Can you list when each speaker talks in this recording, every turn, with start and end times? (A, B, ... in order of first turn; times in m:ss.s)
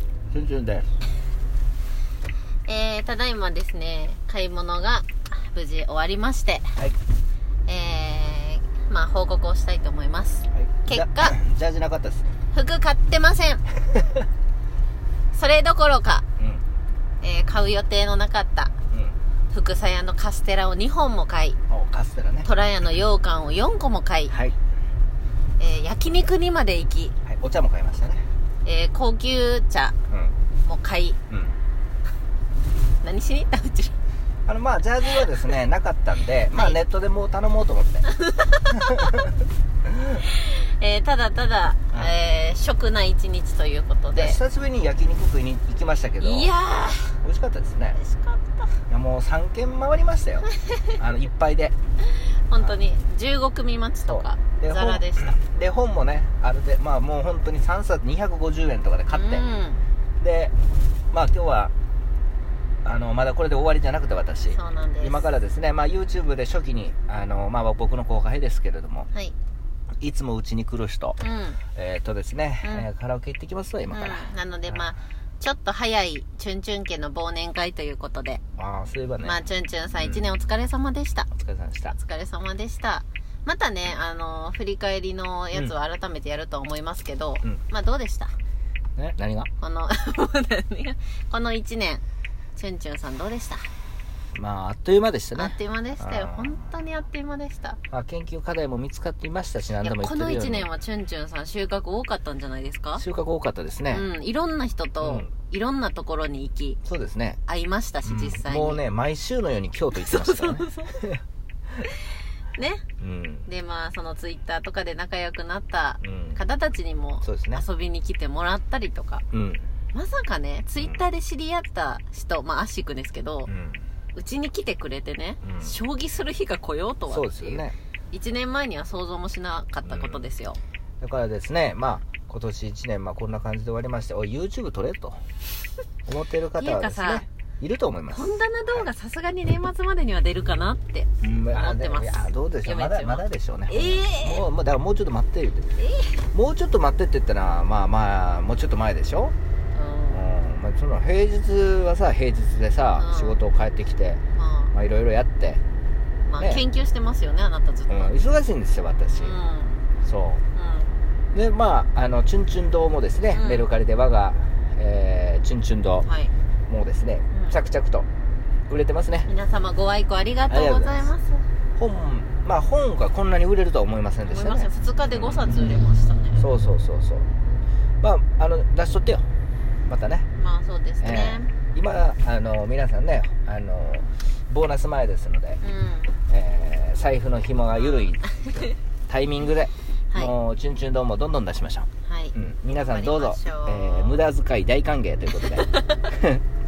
0:00.3-0:00.9 A
0:02.7-0:06.7 B
0:07.7-0:11.4 B
0:10.5-0:12.3 A
0:12.5-0:13.6 B
0:15.3-0:16.2 B
0:16.4-0:16.6 A
0:17.2-0:18.7 B
0:19.5-0:21.6 B
0:21.7-0:22.5 A
0:22.4-0:24.3 B
0:24.3-0:24.6 A
0:25.6-0:27.2 B
0:27.2-0:28.3 A
0:28.6-0:30.0 B
0:30.6-0:31.2 B
0:31.3-0:31.6 A
0:33.0-0:34.0 B
0:34.5-0:38.1 A
0:36.5-0:36.8 B
0:38.1-0:39.2 B
0:38.7-0:40.2 A
0:40.2-0:44.4 B
0:44.1-0:46.5 A
0:46.2-0:47.2 B
0:47.2-0:48.0 A
0:48.0-0:48.8 B
0:48.9-0:51.8 A
0:52.0-0:55.4 B
0:54.1-0:59.4 A
0:59.1-0:59.8 B
1:00.2-1:00.5 A
1:01.1-1:01.7 A
1:02.8-1:09.1 A
1:04.5-1:05.3 B
1:10.0-1:11.2 A
1:11.2-1:11.6 B
1:11.8-1:14.8 A
1:12.6-1:12.9 B
1:13.9-1:18.4 B
1:18.6-1:19.4 A
1:19.2-1:21.3 B
1:20.0-1:20.2 A
1:21.3-1:22.0 A
1:21.9-1:28.4 B
1:29.0-1:29.5 A
1:29.6-1:32.0 B
1:32.6-1:33.7 B
1:34.3-1:36.5 A
1:35.4-1:37.8 B
1:37.9-1:40.7 A
1:39.8-1:43.0 B
1:43.0-1:44.0 A
1:43.9-1:46.8 B
1:45.0-1:45.3 A
1:46.8-1:47.4 A
1:47.5-1:48.8 B
1:48.0-1:51.2 A
1:50.0-1:51.0 B
1:52.6-1:52.8 B
1:53.0-1:53.5 A
1:53.5-1:59.2 B
1:56.0-1:56.4 A
1:57.2-1:57.6 A
1:59.3-1:59.7 A
1:59.9-2:03.5 B
2:00.8-2:01.0 A
2:03.5-2:03.8 A
2:04.2-2:10.6 B
2:05.4-2:05.8 A
2:07.1-2:07.8 A
2:09.8-2:10.3 A
2:11.0-2:15.2 A
2:16.1-2:18.8 A
2:16.6-2:17.3 B
2:18.1-2:24.4 B
2:21.2-2:25.8 A
2:25.8-2:26.2 B
2:26.3-2:29.4 A
2:29.7-2:30.2 B
2:30.1-2:34.2 A
2:33.0-2:33.4 B
2:34.4-2:34.7 B
2:34.7-2:35.6 A
2:36.3-2:38.2 B
2:37.9-2:39.4 A
2:39.2-2:39.8 B
2:40.0-2:40.4 A
2:40.6-2:41.0 B
2:41.3-2:46.1 A
2:43.3-2:43.7 B
2:46.0-2:46.3 B
2:46.7-2:48.1 A
2:47.3-2:47.6 B
2:48.7-2:49.3 A
2:49.3-2:51.4 B
2:50.5-2:51.1 A
2:51.8-2:55.4 A
2:54.3-2:56.4 B
2:56.4-2:57.3 A
2:58.0-2:59.3 A
2:59.9-3:00.3 A
3:00.4-3:01.5 B
3:01.0-3:05.6 A
3:05.6-3:06.1 B
3:06.3-3:16.4 A
3:07.8-3:08.7 B
3:12.1-3:14.2 B
3:15.7-3:16.0 B